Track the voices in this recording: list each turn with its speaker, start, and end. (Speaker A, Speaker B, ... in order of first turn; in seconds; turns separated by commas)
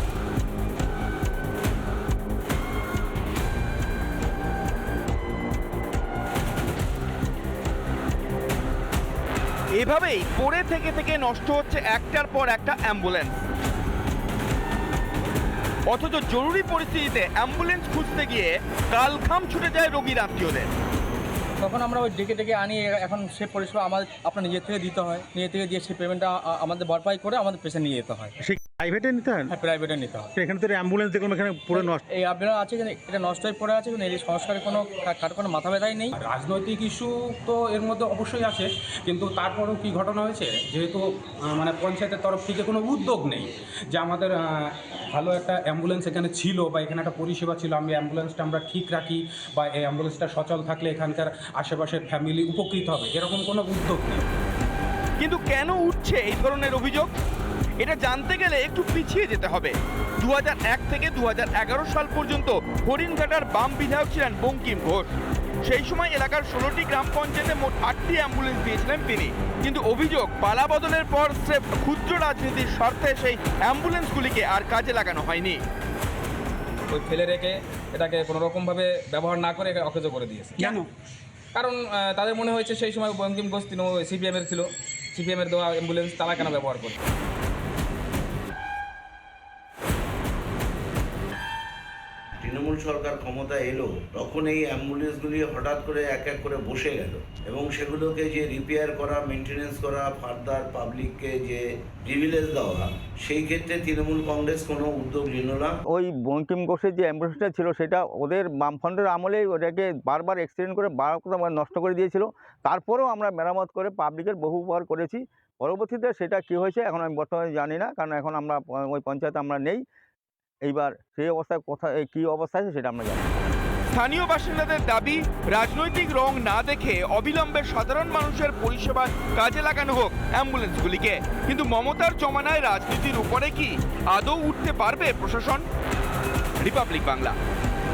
Speaker A: 9.8-13.4, Speaker A: 15.9-20.7, Speaker B: 21.6-28.3, Speaker C: 28.4-29.5, Speaker B: 29.5-30.4, Speaker C: 30.4-32.0, Speaker B: 31.7-36.1, Speaker D: 36.2-44.4, Speaker D: 45.1-54.2, Speaker A: 55.2-57.1, Speaker A: 57.8-75.6, Speaker E: 76.9-80.9, Speaker E: 81.5-87.0, Speaker F: 92.4-105.8, Speaker G: 105.9-119.8, Speaker G: 120.7-123.3, Speaker A: 123.9-135.7, Speaker A: 136.6-137.4